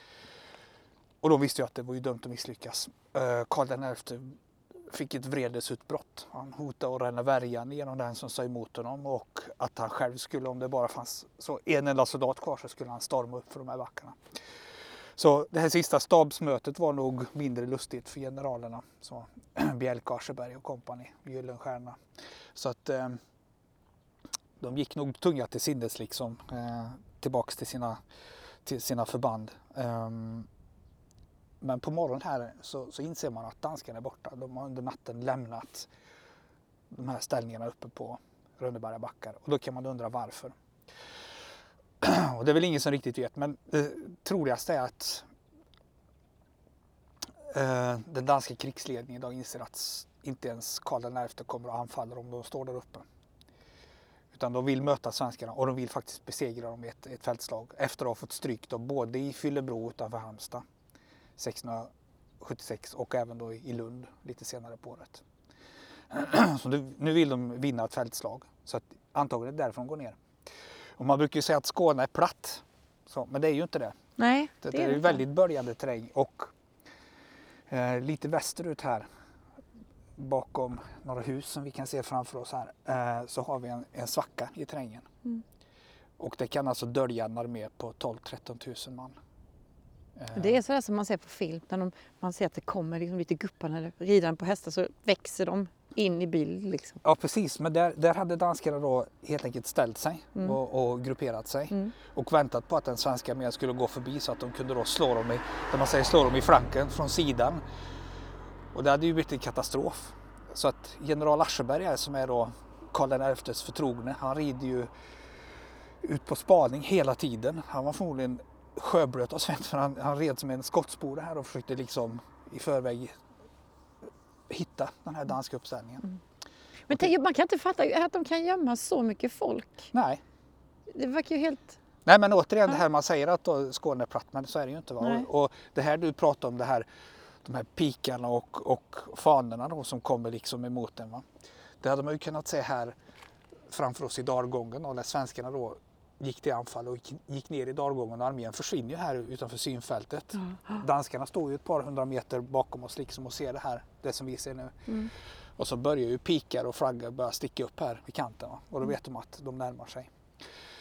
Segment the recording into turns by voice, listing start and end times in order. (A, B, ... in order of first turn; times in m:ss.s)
0:01.2-0:14.2 A
0:15.2-0:22.0 A
0:22.5-0:23.2 A
0:24.6-0:28.0 A
0:28.6-0:30.5 A
0:31.6-0:35.9 A
0:36.9-0:40.6 A
0:42.0-0:45.3 A
0:47.5-0:53.1 A
0:54.3-1:00.7 A
1:01.4-1:05.2 A
1:06.1-1:10.2 A
1:11.0-1:14.0 A
1:14.2-1:15.2 B
1:14.6-1:16.5 A
1:17.7-1:19.1 A
1:20.2-1:25.1 A
1:26.2-1:29.2 A
1:30.2-1:30.6 A
1:30.3-1:37.0 B
1:37.0-1:47.6 A
1:48.7-1:54.9 A
1:56.0-2:03.2 A
2:04.5-2:06.0 A
2:06.9-2:09.9 B
2:09.9-2:10.2 A
2:10.9-2:11.8 B
2:12.1-2:16.9 A
2:15.0-2:15.3 B
2:17.4-2:21.3 A
2:21.8-2:23.0 A
2:23.7-2:40.1 A
2:30.4-2:30.8 B